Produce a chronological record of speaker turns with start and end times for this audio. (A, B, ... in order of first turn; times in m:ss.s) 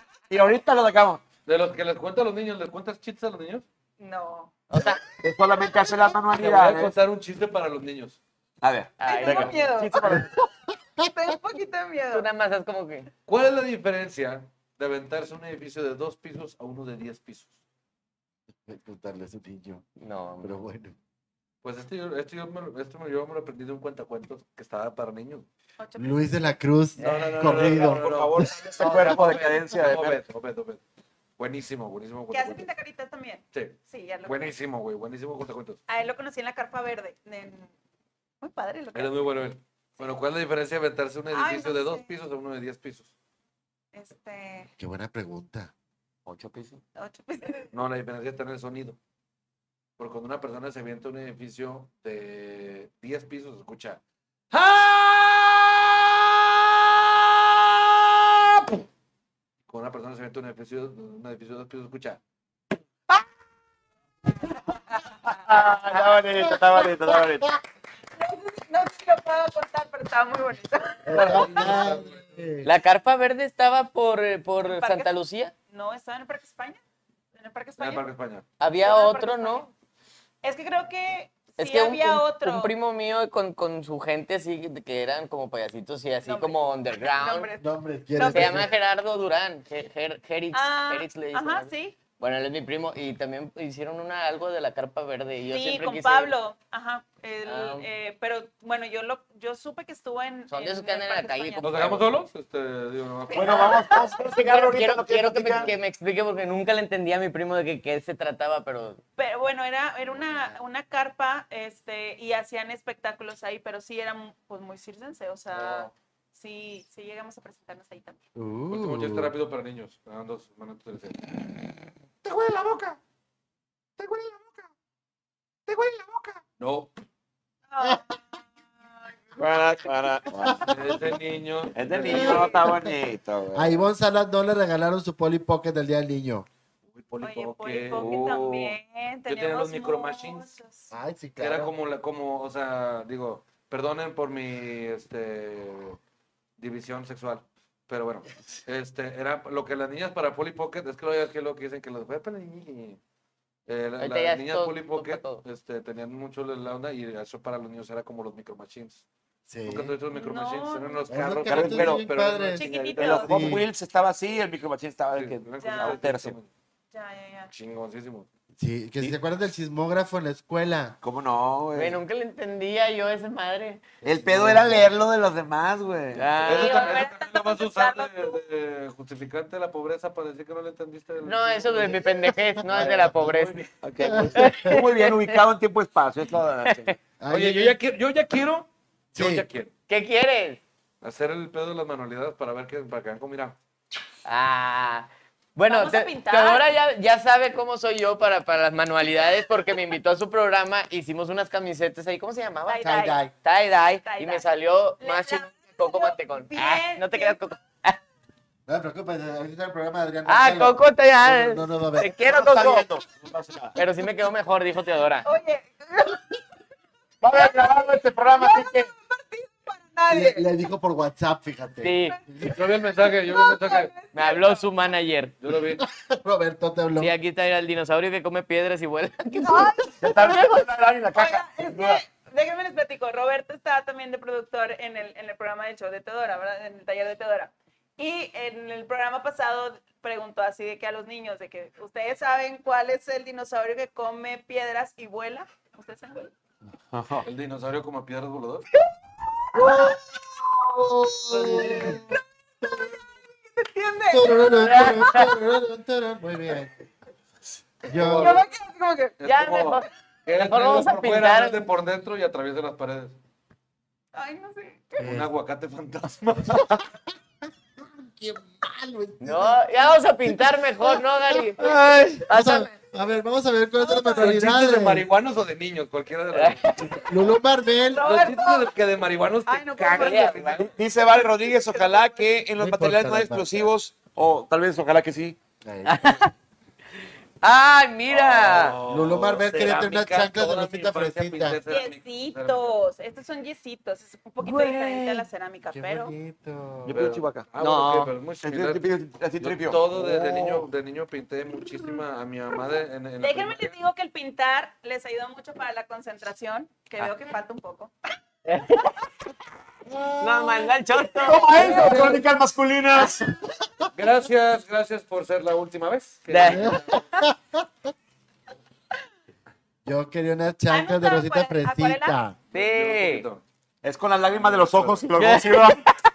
0:00.3-0:01.2 A
0:01.5-0:03.6 B
0:04.0-0:04.5 C
0:04.7-0:05.0 D
0:05.2-0:06.9 A
0:06.3-0:08.2 B
0:08.6-0:10.3 A
0:09.0-0:09.7 D
0:09.0-0:10.3 C
0:10.1-0:10.4 E
0:11.0-0:12.3 C
0:12.1-0:13.1 D
0:13.3-0:17.6 B
0:18.7-0:19.8 E
0:20.0-0:20.6 D
0:20.4-0:21.0 E
0:21.6-0:25.5 B
0:25.8-0:26.2 C
0:26.0-0:29.2 E
0:27.0-0:30.8 B
0:27.5-0:30.2 A
0:31.4-0:32.7 B
0:32.3-0:34.5 C
0:33.5-0:35.8 B
0:35.9-0:37.7 C
0:38.4-0:39.3 C
0:39.0-0:43.1 B
0:41.3-0:42.1 C
0:43.9-0:44.7 C
0:44.8-0:45.7 E
0:46.2-0:46.8 A
0:47.0-0:47.7 C
0:47.7-0:49.0 B
0:50.0-0:56.8 B
0:59.7-1:02.2 B
1:05.2-1:07.5 A
1:06.4-1:07.2 E
1:08.2-1:11.8 C
1:11.1-1:12.7 E
1:11.1-1:12.4 B
1:12.6-1:15.5 D
1:14.6-1:15.1 C
1:15.7-1:16.8 C
1:17.3-1:18.1 C
1:17.8-1:18.4 B
1:18.6-1:19.7 D
1:18.8-1:19.7 C
1:20.4-1:22.7 C
1:21.6-1:27.5 D
1:26.2-1:28.7 C
1:27.6-1:28.7 E
1:28.3-1:36.4 D
1:30.5-1:32.0 C
1:35.5-1:42.0 C
1:37.4-1:37.9 D
1:40.5-1:42.0 D
1:41.6-1:43.8 B
1:43.3-1:44.2 C
1:43.3-1:45.7 A
1:44.2-1:49.0 D
1:49.2-1:58.2 C
1:58.4-1:59.3 E
1:58.7-2:01.3 B
2:02.2-2:03.0 B
2:04.0-2:04.7 B
2:05.7-2:06.4 A
2:05.8-2:06.9 B
2:07.7-2:09.2 C
2:09.4-2:10.7 A
2:10.6-2:12.6 B
2:11.8-2:13.8 A
2:12.1-2:12.9 E
2:13.5-2:16.5 E
2:16.9-2:18.8 B
2:17.2-2:20.9 C
2:17.9-2:18.4 A
2:19.3-2:20.5 B
2:20.9-2:21.7 E
2:21.4-2:26.0 B
2:26.6-2:33.0 B
2:33.7-2:39.0 B
2:34.0-2:35.4 D
2:39.5-2:40.0 E
2:39.7-2:43.5 B
2:40.1-2:41.1 C
2:41.1-2:43.6 E
2:41.5-2:42.0 A
2:42.6-2:43.6 C
2:43.0-2:46.4 A
2:45.1-2:46.5 B
2:45.6-2:46.0 C
2:46.9-2:47.5 C
2:47.5-2:48.3 B
2:48.6-2:51.0 E
2:51.0-2:52.0 A
2:51.8-2:53.8 D
2:54.0-2:56.4 A
2:54.2-2:54.9 E
2:56.2-2:56.9 D
2:56.4-2:58.4 C
2:56.4-3:03.7 B
3:01.2-3:03.7 D
3:03.8-3:07.0 A
3:04.0-3:04.8 E
3:04.3-3:05.4 D
3:06.7-3:06.9 D
3:07.2-3:07.8 E
3:07.3-3:09.7 B
3:09.1-3:09.4 E
3:09.9-3:10.6 D
3:11.0-3:13.6 B
3:14.2-3:28.0 D
3:15.7-3:16.7 C
3:22.7-3:23.2 C
3:22.8-3:23.3 E
3:24.0-3:24.5 C
3:25.0-3:27.4 C
3:28.7-3:32.9 E
3:30.3-3:32.8 D
3:32.2-3:33.8 A
3:33.8-3:35.3 D
3:35.2-3:36.3 C
3:37.2-3:38.9 A
3:37.3-3:40.5 C
3:40.1-3:42.6 E
3:41.8-3:42.2 D
3:42.0-3:44.7 C
3:42.4-3:43.9 B
3:44.1-3:45.3 D
3:45.4-3:45.8 B
3:45.8-3:47.1 E
3:47.0-3:50.3 D
3:49.4-3:50.6 C
3:50.0-3:52.0 A
3:51.1-4:06.3 C
4:06.9-4:07.3 A
4:07.2-4:08.7 B
4:09.5-4:10.0 E
4:09.6-4:09.9 C
4:10.8-4:12.1 E
4:12.6-4:13.0 E
4:13.5-4:15.2 C
4:14.1-4:16.7 E
4:14.6-4:15.2 D
4:17.8-4:18.4 E
4:18.0-4:18.4 B
4:18.1-4:19.2 C
4:19.2-4:23.2 B
4:19.2-4:21.6 D
4:24.1-4:25.0 C
4:25.0-4:26.8 B
4:25.0-4:25.3 E
4:26.6-4:26.8 E
4:27.8-4:35.1 E
4:29.2-4:31.7 D
4:32.3-4:32.7 D
4:33.8-4:34.4 C
4:34.1-4:37.0 B
4:36.3-4:36.9 D
4:37.0-4:38.3 E
4:37.9-4:38.7 C
4:38.0-4:40.8 B
4:39.5-4:42.3 C
4:40.0-4:40.3 D
4:40.4-4:45.4 A
4:42.6-4:43.7 E
4:45.6-4:46.3 E
4:45.9-4:46.3 D
4:47.4-4:48.8 D
4:48.1-4:52.8 B
4:48.9-4:51.6 E
4:51.7-4:56.1 C
4:54.4-4:55.3 D
4:55.7-4:57.1 E
4:56.8-4:57.5 A
4:56.9-4:58.9 B
4:57.6-4:58.1 D
4:58.4-5:00.7 A
4:59.4-5:03.7 B
5:03.2-5:07.9 C
5:08.5-5:09.0 D
5:09.9-5:10.7 E
5:10.2-5:11.4 D
5:11.2-5:13.3 A
5:11.4-5:12.1 C
5:11.6-5:12.2 B
5:13.9-5:17.0 B
5:16.3-5:16.7 D
5:16.4-5:17.6 E
5:19.8-5:22.4 E
5:20.7-5:22.2 C
5:22.5-5:23.4 B
5:22.5-5:23.2 D
5:23.8-5:25.8 A
5:24.3-5:25.0 B
5:25.2-5:25.8 D